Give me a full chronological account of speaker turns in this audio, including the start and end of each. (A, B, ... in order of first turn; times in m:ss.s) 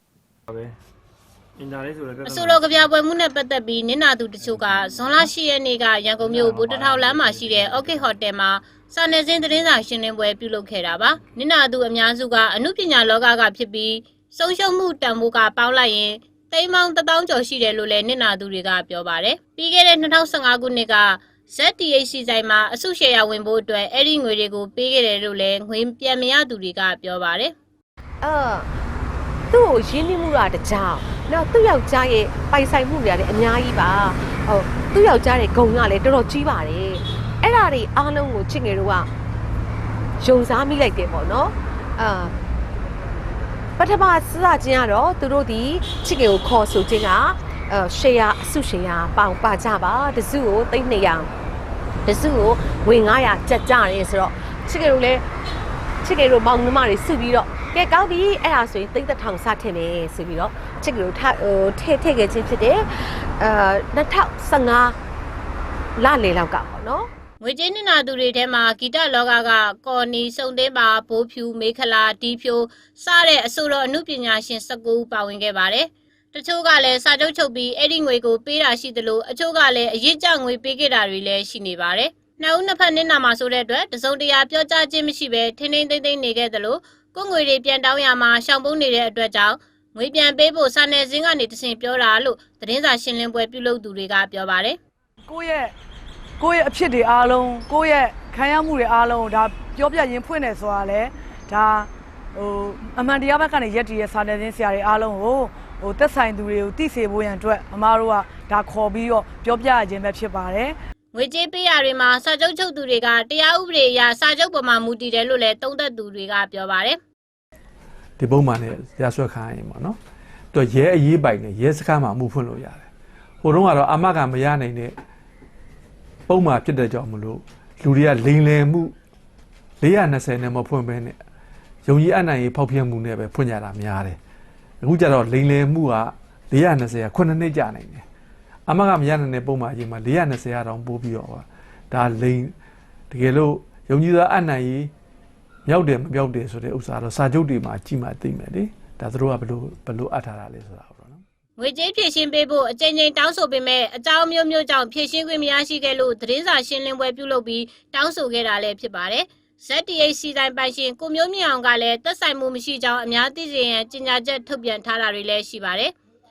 0:01.6-0:02.6 A
0:02.2-0:27.5 B
0:06.4-0:07.8 A
0:28.2-0:28.7 C
0:29.5-0:39.1 C
0:40.2-0:42.3 C
0:43.8-0:51.3 C
0:52.0-0:55.3 C
0:56.0-1:05.0 C
1:06.0-1:07.1 C
1:07.4-1:34.8 B
1:35.3-1:35.7 D
1:36.4-1:50.8 D
1:51.1-1:57.0 B
1:58.2-2:00.0 E
2:00.5-2:02.9 E
2:03.4-2:05.0 E
2:06.3-2:08.9 E
2:09.8-2:11.2 E
2:11.9-2:14.2 E
2:14.8-2:18.0 E
2:18.7-2:22.5 E
2:23.1-2:24.9 E
2:25.7-2:31.2 E
2:31.6-2:45.9 B